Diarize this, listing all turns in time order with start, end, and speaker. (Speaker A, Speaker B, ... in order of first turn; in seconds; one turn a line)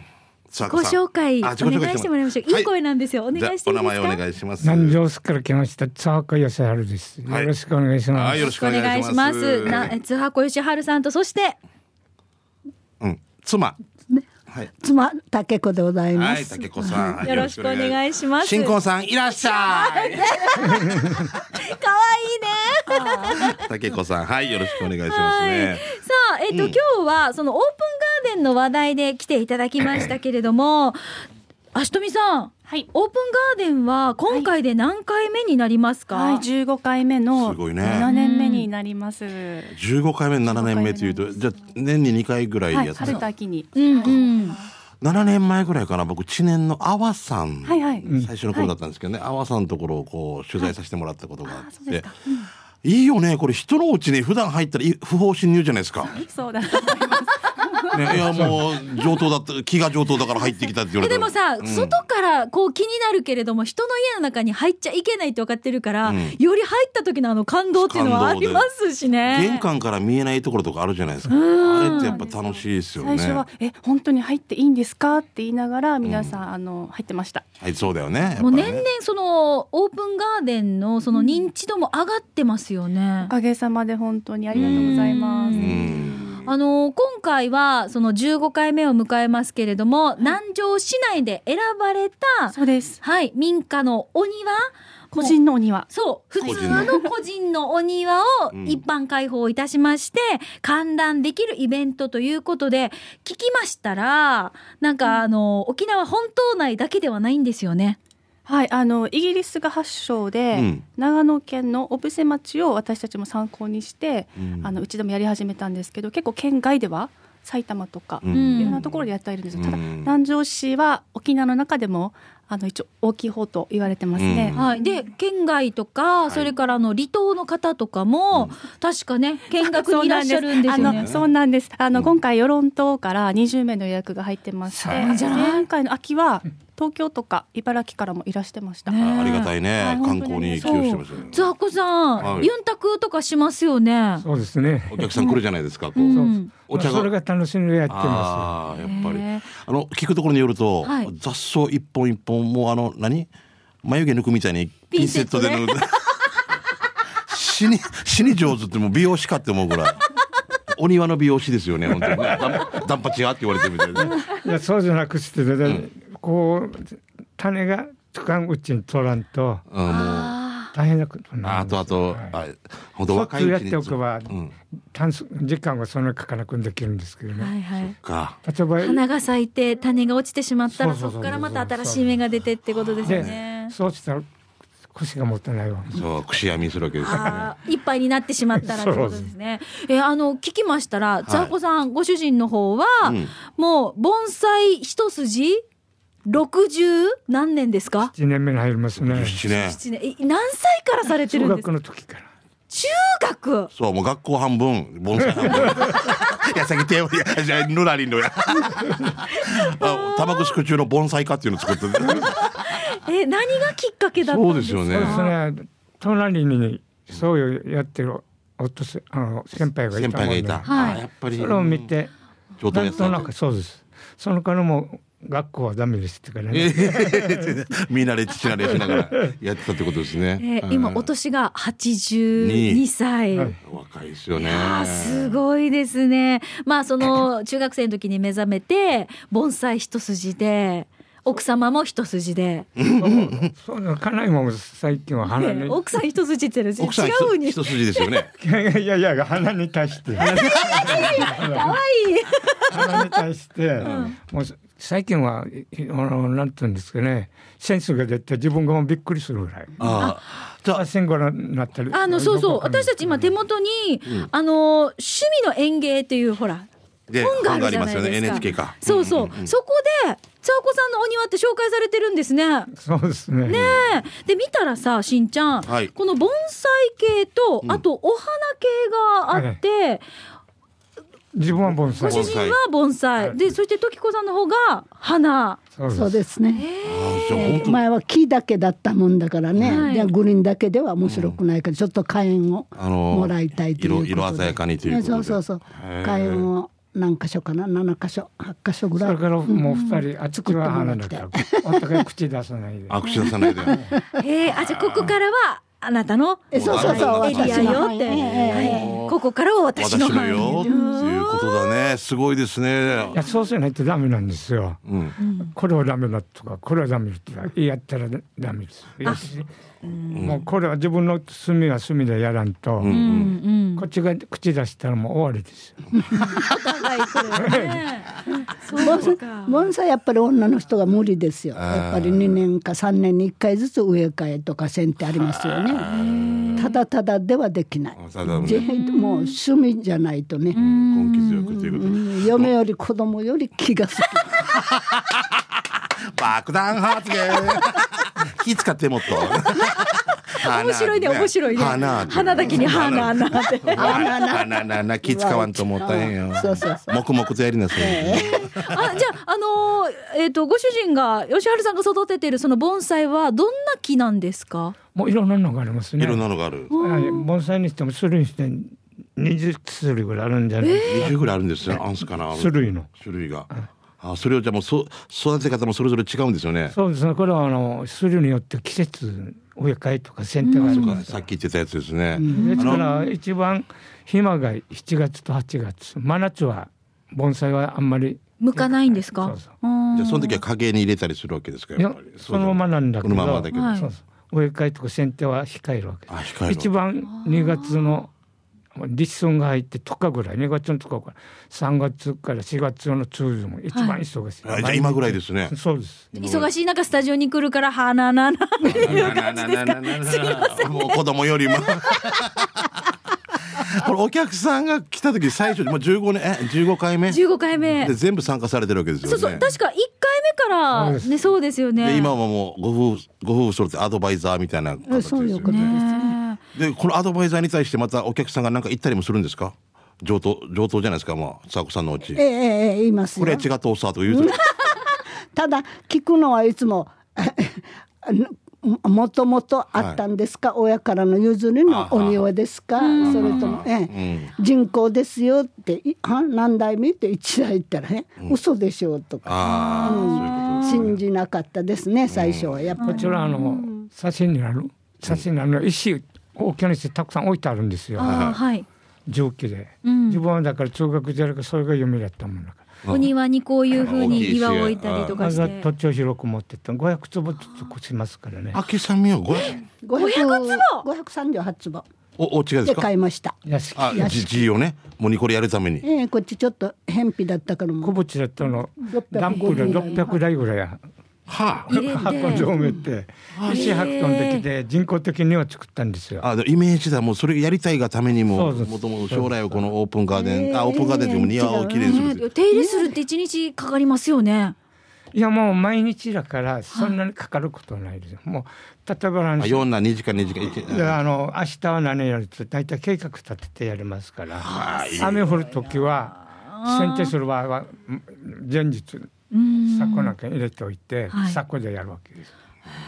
Speaker A: 0.5-2.7
Speaker B: 0.6-4.2
Speaker A: 3.3-5.0
Speaker C: 4.6-8.4
Speaker A: 8.1-9.9
Speaker B: 8.3-11.6
Speaker A: 13.0-13.8
Speaker D: 14.8-17.2
Speaker A: 16.1-20.6
Speaker B: 17.2-18.7
Speaker B: 19.3-23.6
Speaker C: 20.8-21.1
Speaker E: 22.9-23.6
Speaker A: 23.4-25.9
Speaker B: 24.7-31.2
Speaker A: 26.5-26.8
Speaker B: 31.7-36.4
Speaker E: 36.1-39.8
Speaker A: 37.3-38.1
Speaker B: 38.0-38.7
Speaker A: 39.7-43.3
Speaker E: 40.5-41.7
Speaker E: 42.7-44.7
Speaker B: 43.0-44.6
Speaker A: 45.0-52.1
Speaker E: 47.6-48.7
Speaker C: 48.0-48.3
Speaker E: 51.4-52.5
Speaker A: 52.8-56.2
Speaker E: 56.1-58.2
Speaker A: 57.9-62.0
Speaker C: 57.9-58.6
Speaker E: 58.9-59.2
Speaker B: 61.0-69.6
Speaker A: 66.0-66.4
Speaker A: 67.7-68.7
Speaker A: 69.3-73.4
Speaker E: 69.3-69.6
Speaker B: 71.3-72.2
Speaker E: 71.6-77.5
Speaker A: 76.0-76.4
Speaker A: 77.6-78.8
Speaker B: 78.4-83.3
Speaker E: 81.1-81.4
Speaker E: 83.2-86.5
Speaker A: 84.5-86.4
Speaker B: 84.5-108.0
Speaker E: 92.5-93.0
Speaker E: 95.1-95.9
Speaker E: 96.4-97.1
Speaker A: 96.4-97.0
Speaker A: 98.5-98.8
Speaker E: 108.5-124.8
Speaker A: 110.5-110.8
Speaker A: 114.4-114.7
Speaker A: 118.2-119.0
Speaker B: 118.3-118.8
Speaker A: 119.5-120.1
Speaker A: 124.1-124.6
Speaker B: 124.5-131.1
Speaker E: 129.6-139.0
Speaker A: 130.8-131.3
Speaker C: 134.7-135.5
Speaker B: 134.8-135.6
Speaker B: 138.8-139.5
Speaker A: 139.0-141.5
Speaker E: 139.8-141.0
Speaker B: 140.6-144.2
Speaker A: 142.2-142.5
Speaker C: 142.2-142.5
Speaker C: 144.2-145.3
Speaker A: 144.9-146.2
Speaker B: 145.1-145.4
Speaker B: 145.9-146.5
Speaker C: 146.1-148.5
Speaker A: 146.7-147.1
Speaker A: 147.9-153.3
Speaker E: 148.8-149.2
Speaker B: 148.8-149.3
Speaker B: 150.8-151.1
Speaker A: 153.8-156.0
Speaker B: 154.9-155.8
Speaker A: 157.3-160.0
Speaker A: 160.7-164.2
Speaker B: 163.9-164.4
Speaker C: 164.0-169.6
Speaker A: 169.7-170.3
Speaker B: 169.8-170.7
Speaker C: 170.7-172.3
Speaker A: 171.4-174.5
Speaker C: 173.1-174.3
Speaker C: 174.9-177.6
Speaker B: 177.3-177.9
Speaker A: 178.0-178.4
Speaker C: 178.4-179.0
Speaker B: 178.8-183.7
Speaker C: 180.7-182.3
Speaker A: 183.0-183.3
Speaker C: 183.0-184.2
Speaker C: 184.9-186.1
Speaker A: 185.9-187.5
Speaker B: 187.0-195.6
Speaker C: 187.1-187.4
Speaker C: 188.6-189.3
Speaker A: 191.2-191.5
Speaker A: 193.0-193.3
Speaker B: 196.3-198.1
Speaker C: 198.1-199.5
Speaker A: 198.9-199.8
Speaker B: 199.4-201.7
Speaker C: 201.3-202.3
Speaker B: 202.7-203.7
Speaker A: 203.7-212.5
Speaker C: 205.4-206.1
Speaker B: 209.3-210.5
Speaker B: 212.2-215.3
Speaker A: 214.2-215.2
Speaker C: 214.9-222.1
Speaker A: 219.9-221.9
Speaker B: 220.6-221.0
Speaker A: 222.6-223.3
Speaker C: 222.7-227.5
Speaker A: 226.5-231.1
Speaker C: 228.7-229.3
Speaker B: 230.4-233.5
Speaker A: 232.4-232.8
Speaker C: 233.3-233.6
Speaker A: 233.6-235.4
Speaker B: 234.4-242.7
Speaker A: 242.8-243.5
Speaker C: 243.0-245.8
Speaker B: 245.2-248.1
Speaker A: 246.8-248.3
Speaker C: 248.4-251.8
Speaker A: 250.2-251.2
Speaker B: 250.2-253.2
Speaker C: 252.7-260.1
Speaker B: 253.8-254.1
Speaker A: 253.8-254.1
Speaker A: 259.8-260.8
Speaker B: 259.9-260.2
Speaker C: 260.7-263.4
Speaker B: 261.9-266.7
Speaker A: 267.1-269.5
Speaker B: 267.2-272.7
Speaker C: 272.7-273.6
Speaker B: 273.4-280.0
Speaker A: 273.5-273.9
Speaker A: 275.6-275.9
Speaker C: 279.3-279.6
Speaker C: 281.3-282.4
Speaker A: 281.6-282.6
Speaker B: 281.9-285.6
Speaker C: 285.7-286.2
Speaker D: 285.9-286.7
Speaker B: 286.5-287.6
Speaker A: 286.8-287.8
Speaker D: 287.3-299.8
Speaker A: 289.6-289.9
Speaker B: 289.7-290.1
Speaker A: 291.0-291.4
Speaker A: 292.8-296.5
Speaker C: 299.0-303.3
Speaker B: 299.7-300.1
Speaker D: 300.3-302.0
Speaker A: 302.9-303.8
Speaker D: 303.1-304.0
Speaker B: 304.1-311.9
Speaker A: 304.5-305.1
Speaker D: 306.5-309.0
Speaker A: 306.5-309.1
Speaker A: 309.8-313.2
Speaker D: 310.3-311.0
Speaker C: 313.1-314.8
Speaker A: 314.9-315.1
Speaker B: 315.2-315.5
Speaker C: 315.5-319.5
Speaker B: 319.8-320.3
Speaker A: 320.1-320.4
Speaker C: 320.2-323.0
Speaker A: 322.8-323.3
Speaker B: 322.8-323.9
Speaker C: 323.8-326.0
Speaker D: 326.1-327.6
Speaker B: 326.2-329.7
Speaker C: 327.4-327.8
Speaker D: 328.7-335.9
Speaker A: 331.5-332.4
Speaker A: 335.1-336.7
Speaker B: 335.9-336.8
Speaker D: 336.6-340.6
Speaker A: 338.0-338.6
Speaker B: 338.4-339.4
Speaker B: 340.5-341.6
Speaker A: 340.5-342.5
Speaker D: 341.5-344.3
Speaker A: 344.5-345.4
Speaker A: 346.1-358.8
Speaker B: 349.4-349.8
Speaker B: 350.3-354.2
Speaker D: 353.8-357.0
Speaker D: 357.7-358.4
Speaker B: 358.1-364.8
Speaker C: 364.9-372.9
Speaker A: 366.0-366.7
Speaker B: 366.7-367.3
Speaker B: 370.6-371.1
Speaker A: 370.9-376.8
Speaker C: 376.7-381.2
Speaker B: 380.4-381.0
Speaker A: 380.6-382.8
Speaker D: 382.2-382.6
Speaker C: 382.3-389.5
Speaker B: 382.3-383.1
Speaker B: 388.4-390.4
Speaker A: 389.9-393.8
Speaker C: 391.8-398.1
Speaker B: 393.5-393.9
Speaker A: 396.1-396.7
Speaker B: 397.0-398.0
Speaker C: 398.7-406.1
Speaker B: 403.7-404.0
Speaker A: 404.4-405.5
Speaker A: 406.1-406.5
Speaker B: 406.1-411.0
Speaker A: 408.6-412.7
Speaker C: 408.8-409.1
Speaker B: 411.6-412.2
Speaker A: 413.5-417.2
Speaker B: 417.1-417.9
Speaker A: 417.8-419.5
Speaker B: 419.0-422.1
Speaker C: 420.7-421.2
Speaker A: 421.8-425.8
Speaker D: 424.9-426.1
Speaker B: 425.4-426.4
Speaker A: 426.5-432.2
Speaker D: 432.1-433.4
Speaker A: 433.2-434.4
Speaker D: 434.1-453.8
Speaker A: 439.7-440.0
Speaker A: 441.7-442.2
Speaker B: 442.8-443.6
Speaker A: 443.0-444.3
Speaker A: 449.2-451.0
Speaker B: 449.4-450.9
Speaker A: 452.1-452.8
Speaker B: 452.8-453.6
Speaker C: 452.8-458.3
Speaker B: 457.9-458.7
Speaker A: 458.0-458.4
Speaker C: 459.1-462.7
Speaker B: 459.8-460.2
Speaker A: 462.8-463.1
Speaker B: 462.9-465.7
Speaker A: 463.8-465.2
Speaker C: 465.1-468.6
Speaker B: 467.5-467.7
Speaker A: 468.5-469.6
Speaker B: 469.4-470.9
Speaker D: 469.8-471.9
Speaker A: 472.2-472.9
Speaker D: 472.6-473.4
Speaker C: 473.4-474.2
Speaker A: 473.8-475.9
Speaker D: 473.9-474.4
Speaker D: 475.8-477.9
Speaker C: 477.8-480.8
Speaker D: 478.8-480.2
Speaker B: 479.5-479.9
Speaker A: 481.3-481.7
Speaker C: 481.7-486.3
Speaker B: 481.7-482.5
Speaker A: 483.3-483.7
Speaker B: 483.4-484.5
Speaker A: 486.2-492.2
Speaker C: 488.3-489.6
Speaker B: 490.1-494.6
Speaker D: 491.3-492.9
Speaker C: 495.1-499.6
Speaker A: 499.4-501.0
Speaker C: 500.6-512.3
Speaker A: 504.4-505.3
Speaker B: 504.6-505.1
Speaker B: 506.5-507.1
Speaker B: 509.3-510.1
Speaker B: 511.1-511.4